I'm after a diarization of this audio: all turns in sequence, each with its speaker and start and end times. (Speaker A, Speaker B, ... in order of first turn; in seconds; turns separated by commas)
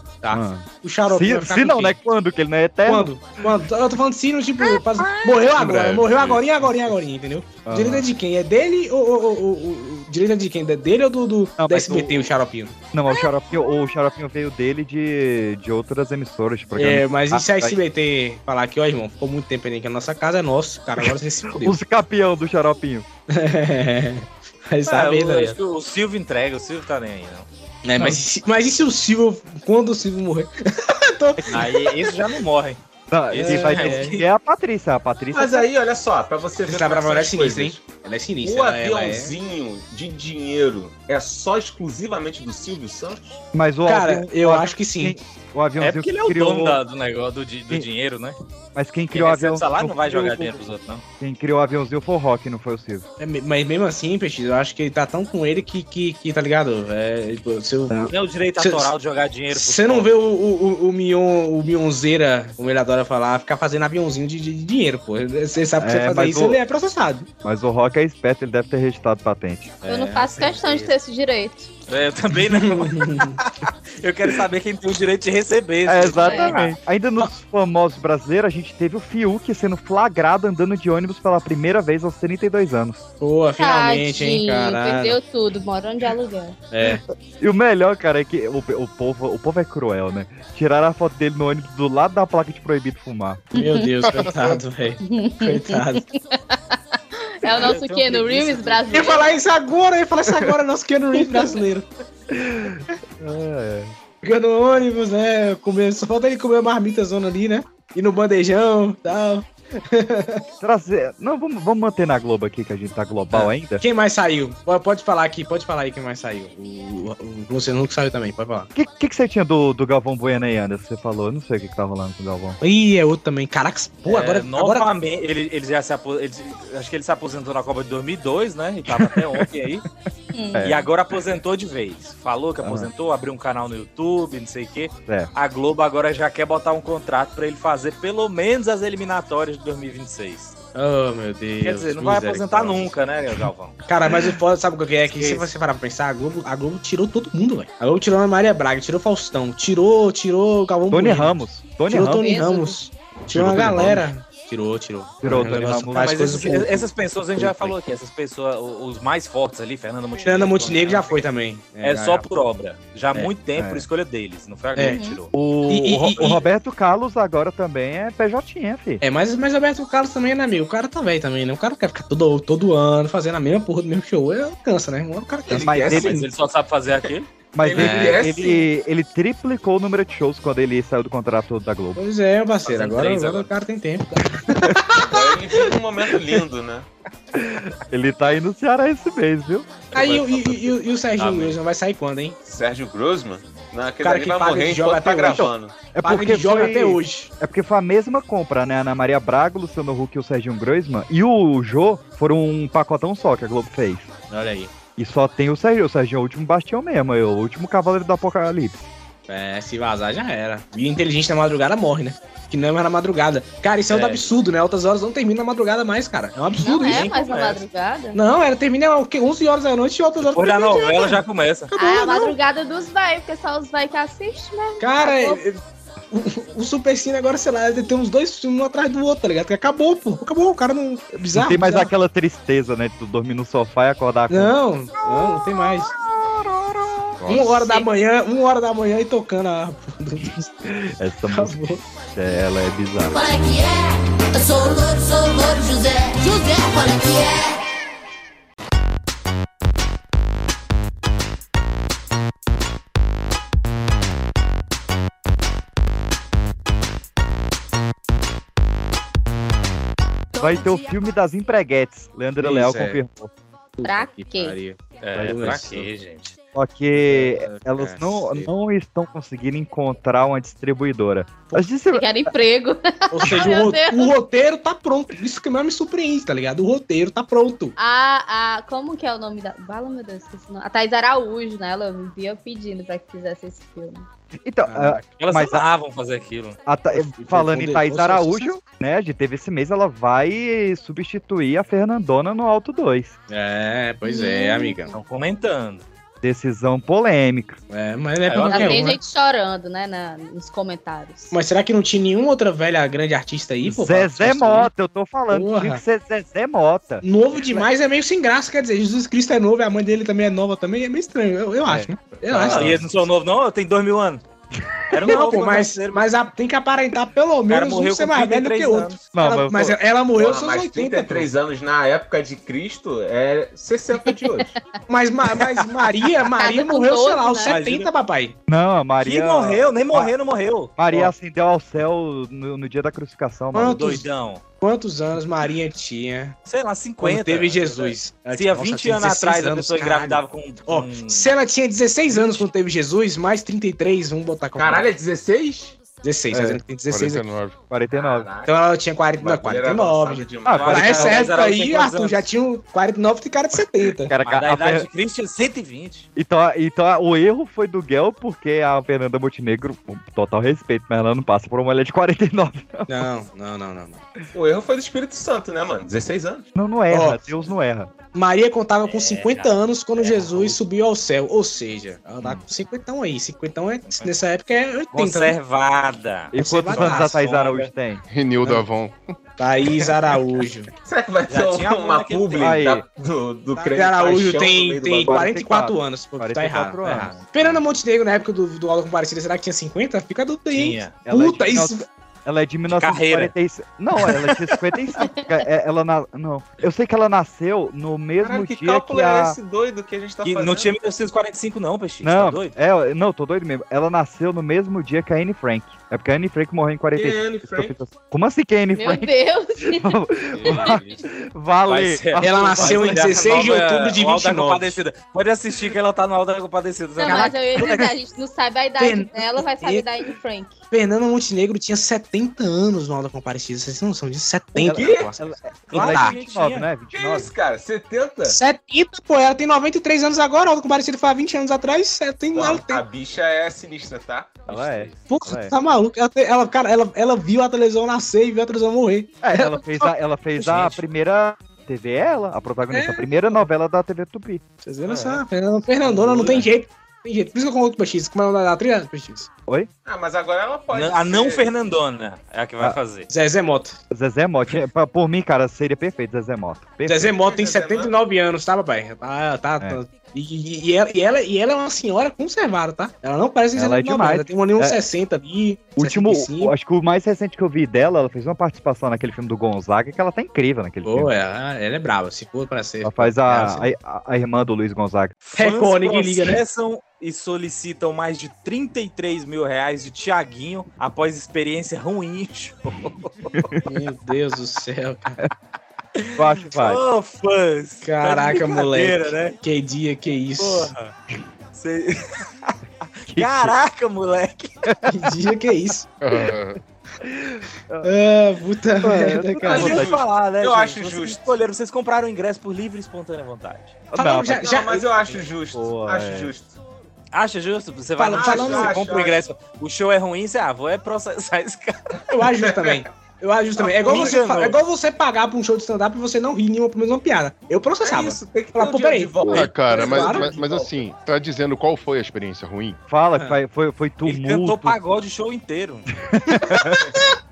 Speaker A: 0.2-2.0, Speaker B: 0.3-3.1, Speaker A: 2.9-12.7, Speaker C: 5.6-6.4, Speaker B: 7.7-8.1, Speaker B: 11.6-12.3, Speaker B: 12.9-17.8, Speaker A: 16.8-21.8, Speaker B: 21.0-23.1, Speaker A: 23.3-25.6, Speaker D: 24.9-27.5, Speaker A: 27.9-32.2, Speaker D: 31.5-32.8, Speaker B: 33.1-35.7, Speaker D: 33.3-34.2, Speaker A: 33.4-34.2, Speaker E: 35.3-37.8, Speaker A: 36.6-39.3, Speaker E: 38.4-43.5, Speaker B: 43.5-46.8, Speaker A: 43.9-45.2, Speaker D: 45.8-48.4, Speaker B: 48.8-50.7, Speaker D: 49.1-51.0, Speaker B: 51.2-53.1, Speaker A: 53.2-58.9, Speaker D: 58.1-60.1, Speaker A: 59.5-67.3, Speaker B: 65.8-66.6, Speaker B: 67.4-69.8, Speaker D: 69.8-70.9, Speaker F: 69.9-71.7, Speaker D: 71.9-73.3, Speaker A: 72.5-73.4, Speaker D: 74.0-76.8, Speaker B: 75.9-83.0, Speaker F: 76.2-76.6, Speaker A: 83.2-85.2, Speaker F: 83.6-86.6, Speaker A: 86.7-87.0, Speaker B: 86.8-93.4, Speaker F: 93.5-93.9, Speaker A: 93.5-96.0, Speaker C: 94.1-94.5, Speaker F: 95.0-99.3, Speaker D: 97.4-99.3, Speaker A: 98.9-101.9, Speaker F: 101.2-101.6, Speaker B: 102.3-103.9, Speaker A: 104.2-110.4, Speaker B: 110.6-113.8, Speaker A: 113.3-118.7, Speaker B: 118.8-122.6, Speaker A: 122.6-124.9, Speaker D: 124.1-129.8, Speaker B: 128.9-129.5, Speaker F: 130.3-130.7, Speaker B: 130.5-130.8, Speaker D: 130.6-140.6, Speaker B: 132.6-132.9, Speaker A: 140.8-142.9, Speaker D: 141.6-143.8, Speaker A: 143.9-156.9, Speaker D: 145.1-145.5, Speaker B: 150.9-152.4, Speaker F: 152.2-152.8, Speaker C: 153.3-154.0, Speaker B: 153.6-154.0, Speaker B: 155.2-156.6, Speaker D: 155.5-161.3, Speaker A: 157.4-157.7, Speaker A: 160.2-162.3, Speaker D: 161.8-165.3, Speaker B: 163.1-163.9, Speaker F: 164.8-165.2, Speaker B: 165.3-169.0, Speaker A: 165.7-166.4, Speaker A: 169.0-176.2, Speaker E: 175.6-176.2, Speaker B: 175.6-176.2, Speaker D: 175.8-177.3, Speaker B: 177.5-182.0, Speaker E: 177.6-178.6, Speaker A: 177.8-178.4, Speaker A: 182.0-185.7, Speaker D: 182.6-183.5, Speaker E: 185.0-186.9, Speaker B: 187.3-190.5, Speaker A: 189.9-192.4, Speaker D: 189.9-191.6, Speaker E: 192.4-195.9, Speaker A: 194.0-197.3, Speaker B: 195.9-204.1, Speaker A: 204.3-204.7, Speaker B: 205.0-208.8, Speaker A: 209.3-217.1, Speaker D: 213.9-214.3, Speaker F: 216.6-218.2, Speaker D: 216.9-217.6, Speaker A: 218.1-222.3, Speaker D: 220.2-221.7, Speaker F: 221.8-225.4, Speaker A: 224.8-225.6, Speaker A: 226.1-231.9, Speaker B: 231.3-234.6, Speaker A: 234.3-235.9, Speaker B: 235.1-237.2, Speaker C: 237.2-237.6, Speaker A: 237.3-240.5, Speaker B: 240.7-243.2, Speaker A: 241.3-241.8, Speaker G: 243.1-247.6, Speaker F: 260.4-260.6, Speaker B: 260.4-263.3, Speaker A: 262.4-263.0, Speaker A: 263.8-265.9, Speaker F: 263.8-264.6, Speaker D: 265.0-266.3, Speaker B: 265.1-265.7, Speaker B: 266.5-272.3, Speaker A: 267.0-268.5, Speaker F: 271.9-274.1, Speaker A: 273.1-277.7, Speaker F: 277.8-284.1, Speaker B: 284.4-285.6, Speaker A: 284.7-285.0, Speaker D: 285.2-286.6, Speaker B: 286.6-293.1, Speaker A: 286.9-288.5, Speaker A: 293.3-295.0, Speaker F: 294.0-294.8, Speaker D: 294.9-295.9, Speaker B: 296.2-297.6, Speaker A: 297.7-299.0, Speaker D: 298.2-298.9, Speaker F: 298.5-301.4, Speaker A: 301.3-304.7, Speaker B: 303.6-307.6, Speaker A: 305.3-305.8, Speaker A: 307.0-312.8, Speaker B: 311.6-312.8, Speaker D: 312.3-314.2, Speaker D: 314.9-316.0, Speaker A: 315.0-321.3, Speaker D: 317.5-319.0, Speaker B: 319.1-319.8, Speaker E: 320.1-324.5, Speaker A: 324.9-328.4, Speaker F: 326.4-327.6, Speaker D: 327.4-327.9, Speaker B: 328.5-330.1, Speaker D: 329.0-331.1, Speaker B: 330.8-334.0, Speaker A: 333.5-334.1, Speaker D: 333.6-334.4, Speaker A: 334.6-336.4, Speaker D: 336.5-341.3, Speaker A: 337.0-344.9, Speaker D: 342.1-342.4, Speaker E: 344.6-345.8, Speaker A: 346.0-347.2, Speaker B: 346.3-346.6, Speaker C: 346.9-347.6, Speaker B: 347.7-348.3, Speaker E: 347.9-348.6, Speaker A: 348.4-354.1, Speaker E: 349.2-351.2, Speaker B: 350.4-351.1, Speaker D: 350.5-352.2, Speaker B: 354.0-354.9, Speaker D: 354.2-356.1, Speaker B: 356.1-363.1, Speaker A: 362.9-364.0, Speaker E: 364.3-366.5, Speaker B: 366.6-367.9, Speaker A: 366.9-367.2, Speaker A: 368.1-375.4, Speaker D: 368.9-370.6, Speaker D: 373.9-374.1, Speaker D: 374.9-377.7, Speaker B: 376.3-378.0, Speaker A: 376.4-377.2, Speaker C: 378.1-379.1, Speaker A: 379.4-380.7, Speaker E: 380.8-385.3, Speaker D: 381.3-382.6, Speaker B: 382.4-382.9, Speaker A: 383.6-391.9, Speaker B: 385.1-387.6, Speaker D: 386.8-387.2, Speaker D: 390.5-390.9, Speaker B: 391.0-399.4, Speaker D: 392.7-393.3, Speaker E: 398.2-400.7, Speaker D: 400.2-402.5, Speaker B: 402.0-413.1, Speaker E: 406.9-407.8, Speaker F: 408.7-410.8, Speaker D: 410.3-411.0, Speaker D: 411.6-417.5, Speaker A: 412.2-414.8, Speaker F: 417.0-420.6, Speaker A: 417.1-417.9, Speaker A: 418.8-419.9, Speaker A: 420.7-426.5, Speaker B: 424.6-427.3, Speaker E: 424.6-425.1, Speaker D: 425.7-426.6, Speaker E: 426.9-428.4, Speaker A: 428.3-432.8, Speaker E: 432.4-434.5, Speaker D: 434.5-435.0, Speaker B: 434.5-435.5, Speaker A: 435.1-440.8, Speaker B: 439.2-444.4, Speaker A: 442.7-443.4, Speaker A: 444.6-449.3, Speaker D: 444.9-445.2, Speaker D: 445.8-446.5, Speaker E: 449.9-451.5, Speaker D: 450.7-453.1, Speaker A: 453.1-453.8, Speaker B: 453.9-457.1, Speaker A: 456.9-466.5, Speaker E: 457.1-457.9, Speaker B: 463.5-464.8, Speaker B: 465.8-471.1, Speaker A: 470.9-473.6, Speaker B: 472.8-475.2, Speaker D: 475.2-483.5, Speaker A: 475.4-476.4, Speaker A: 483.6-485.2, Speaker D: 486.0-489.4, Speaker B: 486.1-486.8, Speaker A: 487.8-490.7, Speaker D: 490.4-490.9, Speaker D: 491.6-492.6, Speaker B: 493.1-493.6, Speaker D: 493.1-494.6, Speaker B: 494.7-495.1, Speaker A: 494.9-495.9, Speaker C: 496.0-496.6, Speaker B: 497.0-497.9, Speaker A: 497.8-499.8, Speaker B: 498.8-499.9, Speaker E: 499.4-501.4, Speaker D: 499.4-503.8, Speaker B: 503.9-504.5, Speaker A: 503.9-504.9, Speaker E: 504.3-506.6, Speaker B: 505.5-506.3, Speaker D: 507.1-512.0, Speaker A: 508.0-508.9, Speaker E: 508.1-509.2, Speaker A: 512.1-520.3, Speaker D: 513.8-514.6, Speaker E: 517.8-520.7, Speaker C: 519.2-522.8, Speaker B: 522.9-524.8, Speaker D: 524.0-525.9, Speaker B: 526.0-527.0